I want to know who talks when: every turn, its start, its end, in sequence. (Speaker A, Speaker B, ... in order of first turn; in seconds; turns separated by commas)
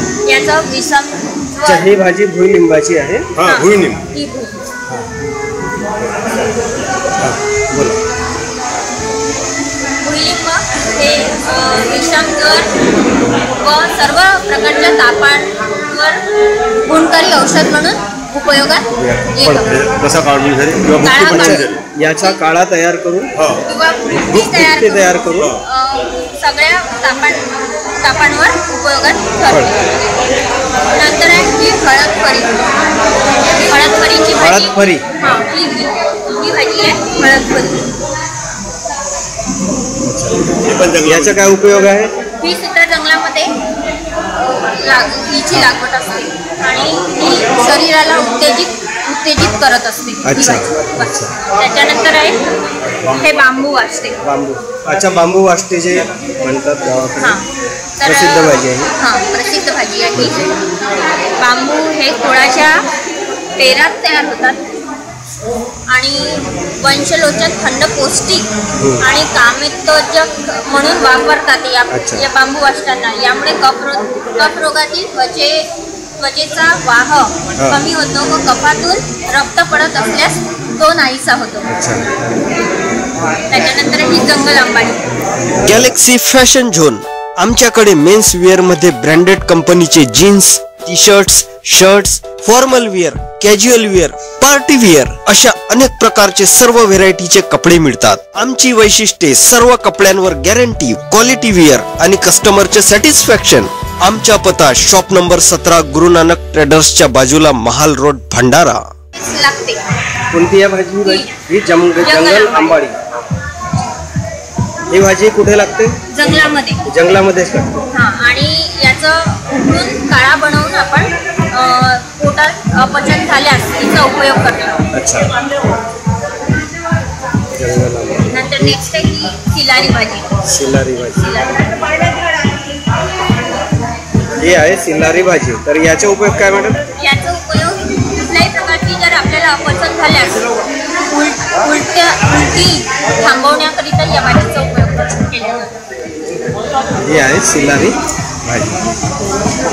Speaker A: 0.2-1.9, Speaker B: 1.6-4.0, Speaker A: 3.4-4.7, Speaker B: 7.2-8.0, Speaker A: 10.0-12.7, Speaker A: 13.6-16.2, Speaker A: 16.9-19.9, Speaker C: 19.8-21.5, Speaker A: 21.0-21.7, Speaker B: 21.0-23.3, Speaker A: 23.7-27.4, Speaker B: 24.3-25.6, Speaker A: 28.0-29.9, Speaker A: 30.9-32.6, Speaker A: 33.6-37.8, Speaker B: 34.4-35.0, Speaker C: 40.5-41.2, Speaker B: 40.9-42.1, Speaker A: 42.4-43.5, Speaker A: 44.4-52.4, Speaker B: 50.2-51.3, Speaker A: 53.1-54.2, Speaker B: 54.2-57.4, Speaker A: 57.2-57.5, Speaker A: 58.0-60.5, Speaker B: 58.0-58.9, Speaker A: 61.4-62.8, Speaker A: 63.6-64.6, Speaker A: 65.9-68.5, Speaker A: 69.0-75.7, Speaker B: 71.9-72.2, Speaker A: 76.2-81.7, Speaker B: 81.7-82.0, Speaker A: 83.5-85.0, Speaker B: 85.5-108.8, Speaker A: 109.2-109.8, Speaker B: 110.3-112.9, Speaker A: 111.0-111.3, Speaker A: 112.0-112.8, Speaker B: 114.9-117.8, Speaker A: 116.1-116.8, Speaker A: 117.9-124.9, Speaker B: 124.9-125.3, Speaker B: 127.5-128.8, Speaker A: 128.3-130.3, Speaker B: 130.4-131.2, Speaker A: 131.2-132.7, Speaker B: 134.4-136.8, Speaker A: 137.0-140.5, Speaker A: 141.1-145.7, Speaker B: 147.0-148.7